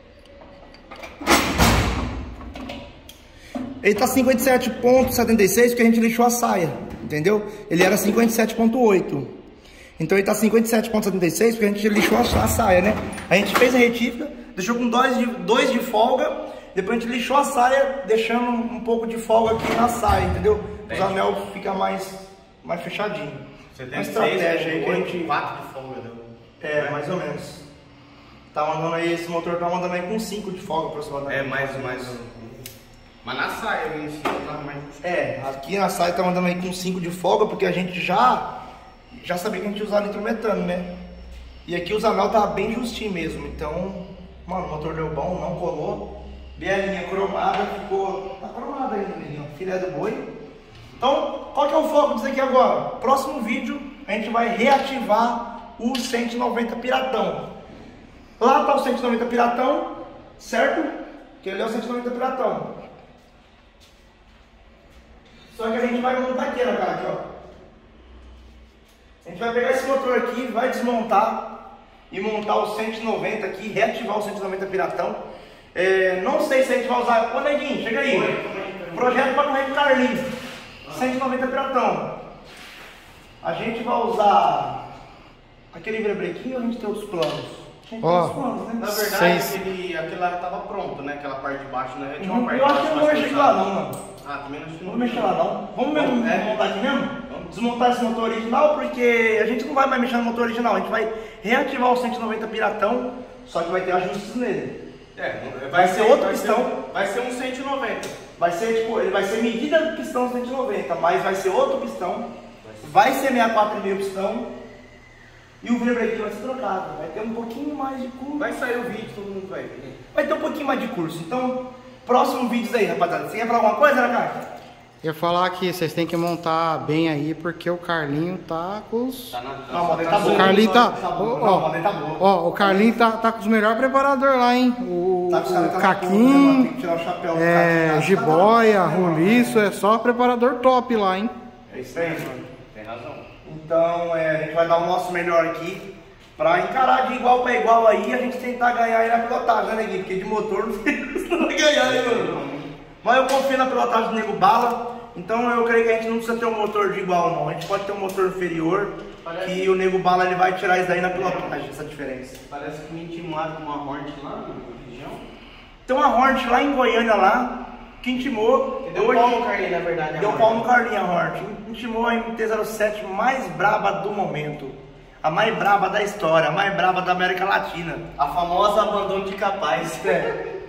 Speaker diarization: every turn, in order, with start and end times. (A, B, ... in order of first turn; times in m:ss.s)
0:03.8-0:09.3 A
0:10.0-0:25.3 A
0:20.8-0:21.2 B
0:23.7-0:27.0 B
0:26.6-0:27.6 A
0:28.5-0:32.2 A
0:31.3-0:32.7 B
0:33.2-0:35.0 B
0:35.0-0:38.5 A
0:39.1-0:40.9 A
0:41.6-0:50.3 A
0:51.0-0:57.5 A
0:58.4-1:02.7 A
1:05.5-1:07.2 A
1:09.2-1:11.5 A
1:12.1-1:15.2 A
1:15.7-1:18.3 A
1:18.0-1:19.3 B
1:18.9-1:20.3 A
1:20.8-1:21.2 B
1:20.9-1:22.1 A
1:23.4-1:24.8 A
1:25.7-1:28.9 A
1:28.0-1:28.4 C
1:28.8-1:36.7 B
1:29.0-1:29.5 C
1:32.2-1:34.0 A
1:34.8-1:44.8 A
1:37.2-1:37.5 B
1:45.1-1:48.2 B
1:45.7-1:46.8 A
1:48.4-1:52.3 A
1:52.6-1:52.9 B
1:52.8-1:54.5 A
1:55.6-1:58.5 A
1:58.4-2:00.0 B
2:00.1-2:04.4 A
2:05.0-2:09.3 C
2:09.3-2:11.1 B
2:09.7-2:13.0 A
2:10.2-2:11.6 C
2:12.2-2:16.7 C
2:15.3-2:19.6 A
2:17.3-2:21.3 C
2:21.7-2:23.2 B
2:21.7-2:22.3 A
2:23.4-2:32.4 A
2:31.8-2:32.7 B
2:33.0-2:42.4 A
2:39.2-2:39.8 B
2:41.1-2:41.6 B
2:42.5-2:45.3 B
2:45.9-2:49.4 A
2:48.1-2:50.6 B
2:50.2-2:58.0 A
2:58.2-3:00.4 B
2:59.8-3:00.3 A